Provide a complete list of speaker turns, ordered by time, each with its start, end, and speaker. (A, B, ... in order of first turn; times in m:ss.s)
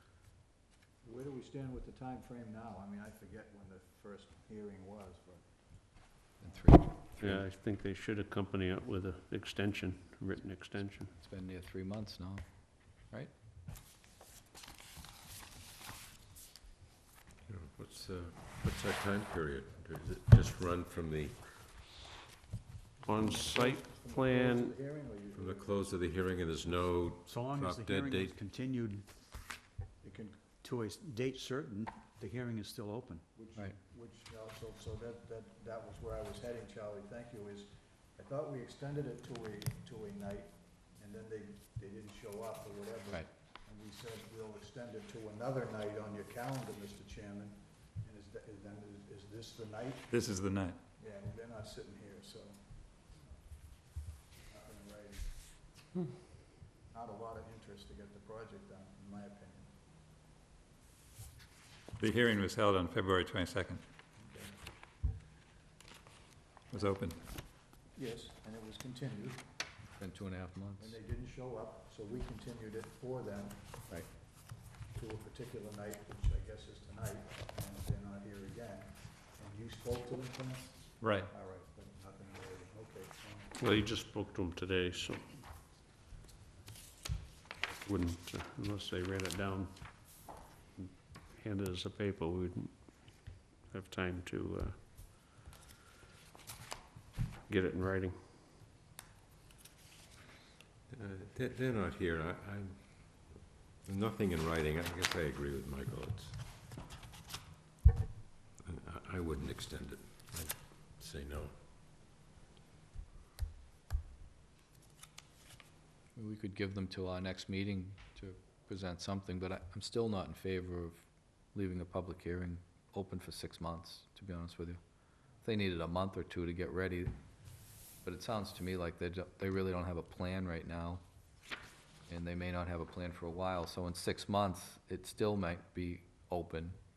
0:01.0-0:05.5 A
0:06.4-0:07.4 B
0:07.2-0:11.1 C
0:11.1-0:13.3 B
0:17.4-0:21.5 D
0:23.1-0:24.7 C
0:23.1-0:25.9 A
0:25.3-0:28.4 D
0:27.2-0:29.1 E
0:30.0-0:30.4 A
0:30.6-0:33.2 E
0:33.3-0:50.1 A
0:50.1-0:50.8 F
0:51.0-0:52.6 A
0:54.5-0:55.3 A
0:56.9-0:59.7 A
1:02.0-1:03.8 F
1:04.2-1:04.5 A
1:06.7-1:07.2 F
1:08.0-1:09.4 A
1:10.0-1:10.9 B
1:10.8-1:13.8 A
1:14.9-1:23.6 A
1:21.0-1:21.3 F
1:23.6-1:25.3 C
1:27.8-1:30.1 C
1:30.8-1:34.8 C
1:37.5-1:38.2 C
1:40.9-1:46.4 D
1:48.6-1:51.6 D
1:56.2-2:04.8 B
2:05.4-2:07.2 B
2:08.0-2:11.0 B
2:12.1-2:16.8 B